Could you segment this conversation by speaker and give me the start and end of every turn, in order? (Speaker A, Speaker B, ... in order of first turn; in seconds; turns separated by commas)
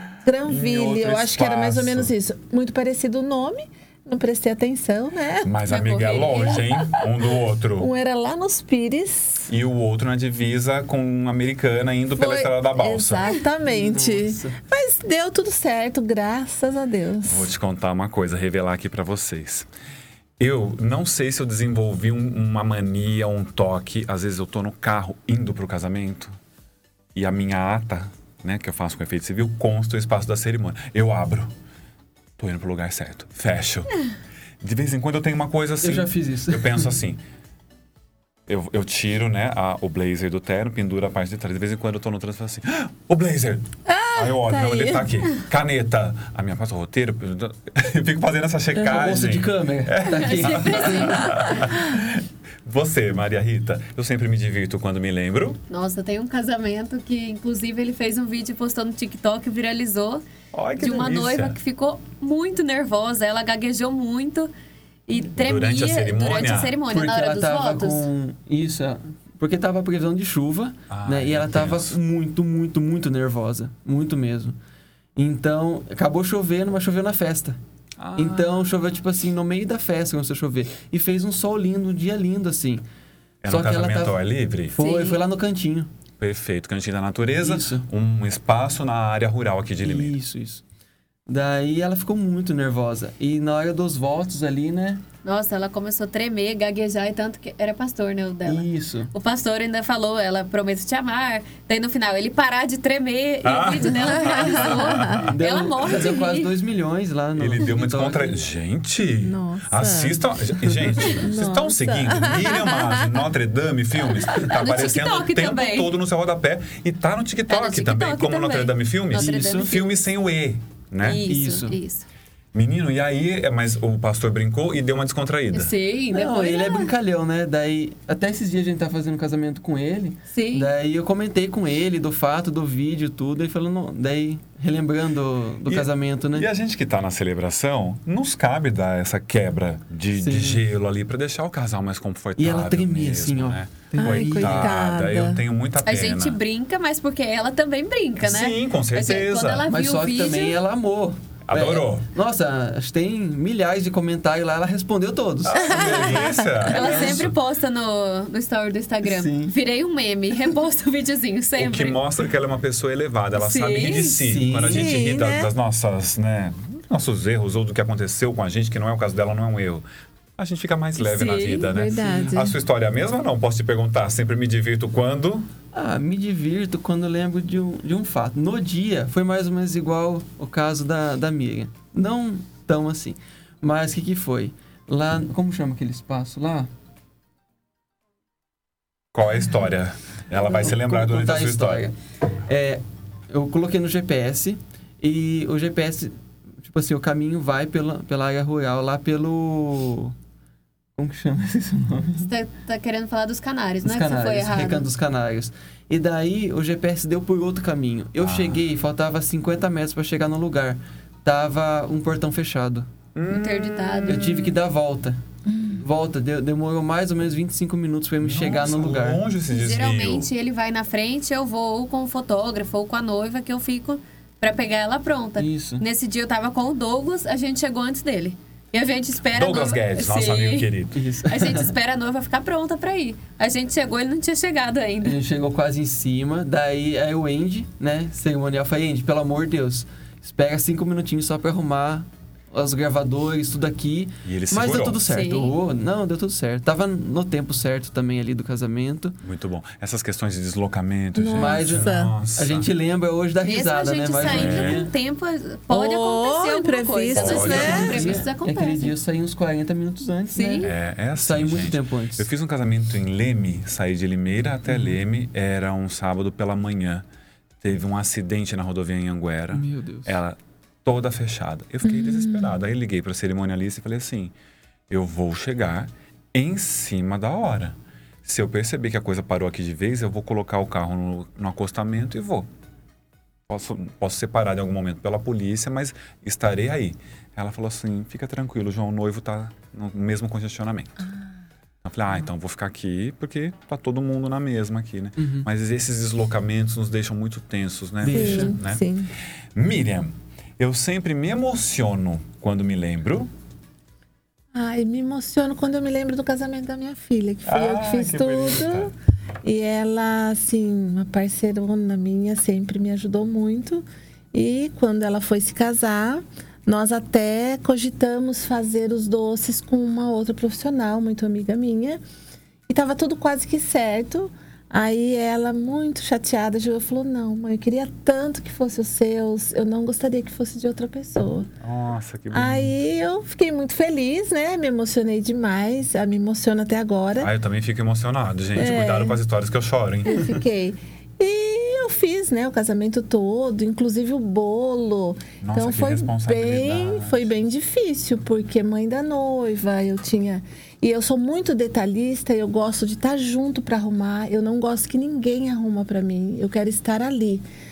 Speaker A: 0.2-5.6, Speaker B: 0.5-2.1, Speaker B: 5.4-7.9, Speaker C: 5.7-6.7, Speaker A: 6.7-9.5, Speaker B: 9.5-13.3, Speaker A: 12.2-17.5, Speaker D: 13.6-14.6, Speaker B: 17.2-19.7, Speaker B: 20.4-26.3, Speaker B: 27.1-31.5, Speaker B: 32.4-34.0, Speaker B: 34.6-37.2, Speaker D: 35.8-37.0, Speaker B: 38.5-55.6, Speaker A: 43.9-45.1, Speaker D: 48.8-51.4, Speaker C: 50.1-51.7, Speaker C: 55.7-60.2, Speaker B: 60.5-61.6, Speaker C: 60.8-64.5, Speaker C: 65.1-68.1, Speaker B: 65.3-66.8, Speaker D: 66.9-74.6, Speaker B: 70.9-72.0, Speaker D: 75.2-77.6, Speaker B: 78.0-78.7, Speaker D: 78.2-82.8, Speaker B: 83.4-84.8, Speaker D: 83.5-85.9, Speaker C: 84.8-85.2, Speaker B: 86.2-90.1, Speaker D: 87.4-87.9, Speaker D: 89.8-90.6, Speaker D: 91.3-95.0, Speaker C: 95.2-106.5, Speaker D: 98.5-99.1, Speaker B: 103.4-105.3, Speaker D: 105.2-108.4, Speaker B: 107.4-121.2, Speaker A: 109.2-110.2, Speaker A: 111.2-113.2, Speaker C: 114.3-115.9, Speaker C: 117.5-120.0, Speaker D: 119.1-119.8, Speaker C: 121.0-122.1, Speaker D: 121.2-121.8, Speaker B: 122.5-125.7, Speaker C: 125.5-126.9, Speaker D: 126.1-136.5, Speaker C: 130.3-130.7, Speaker B: 135.7-146.4, Speaker D: 140.1-140.6, Speaker D: 142.4-144.8, Speaker A: 144.0-145.4, Speaker C: 145.8-150.6, Speaker B: 148.2-149.7, Speaker D: 149.7-157.3, Speaker B: 151.5-152.1, Speaker B: 155.5-157.3, Speaker A: 155.6-156.5, Speaker C: 156.6-162.0, Speaker D: 159.0-159.5, Speaker B: 161.6-169.8, Speaker C: 163.3-164.2, Speaker D: 164.3-164.9, Speaker A: 164.7-165.5, Speaker B: 170.4-175.5, Speaker C: 171.0-171.8, Speaker A: 171.7-172.6, Speaker D: 172.0-172.4, Speaker D: 175.7-186.7, Speaker B: 189.1-191.9, Speaker D: 190.3-200.2, Speaker D: 201.0-202.2, Speaker C: 202.2-204.9, Speaker D: 203.8-212.9, Speaker B: 208.2-208.6, Speaker B: 213.2-214.2, Speaker C: 213.3-214.6, Speaker D: 214.1-215.2, Speaker A: 215.5-215.8, Speaker D: 215.8-219.2, Speaker B: 218.2-220.3, Speaker C: 219.5-230.7, Speaker D: 225.4-225.8, Speaker B: 229.3-231.0, Speaker D: 230.9-231.7, Speaker C: 231.2-235.2, Speaker D: 235.0-249.2, Speaker B: 244.2-245.0, Speaker C: 245.0-245.6, Speaker B: 249.2-252.7, Speaker A: 251.2-252.1, Speaker D: 251.3-254.9, Speaker C: 253.4-258.9, Speaker B: 254.2-254.8, Speaker A: 255.7-258.0, Speaker B: 257.1-258.0, Speaker D: 257.3-262.3, Speaker C: 260.3-260.7, Speaker B: 260.6-267.1, Speaker B: 267.6-274.3, Speaker D: 269.5-270.2, Speaker A: 271.8-272.6, Speaker B: 274.9-282.5, Speaker B: 283.5-291.1, Speaker B: 291.8-298.8, Speaker D: 295.2-295.5, Speaker D: 298.0-298.6, Speaker A: 298.1-299.1, Speaker B: 299.6-303.3, Speaker A: 304.5-322.0, Speaker B: 307.5-308.9, Speaker A: 322.7-331.5, Speaker B: 331.6-332.7, Speaker A: 332.3-337.3, Speaker B: 337.2-340.3, Speaker A: 338.6-339.2, Speaker A: 340.0-357.4, Speaker B: 345.4-347.2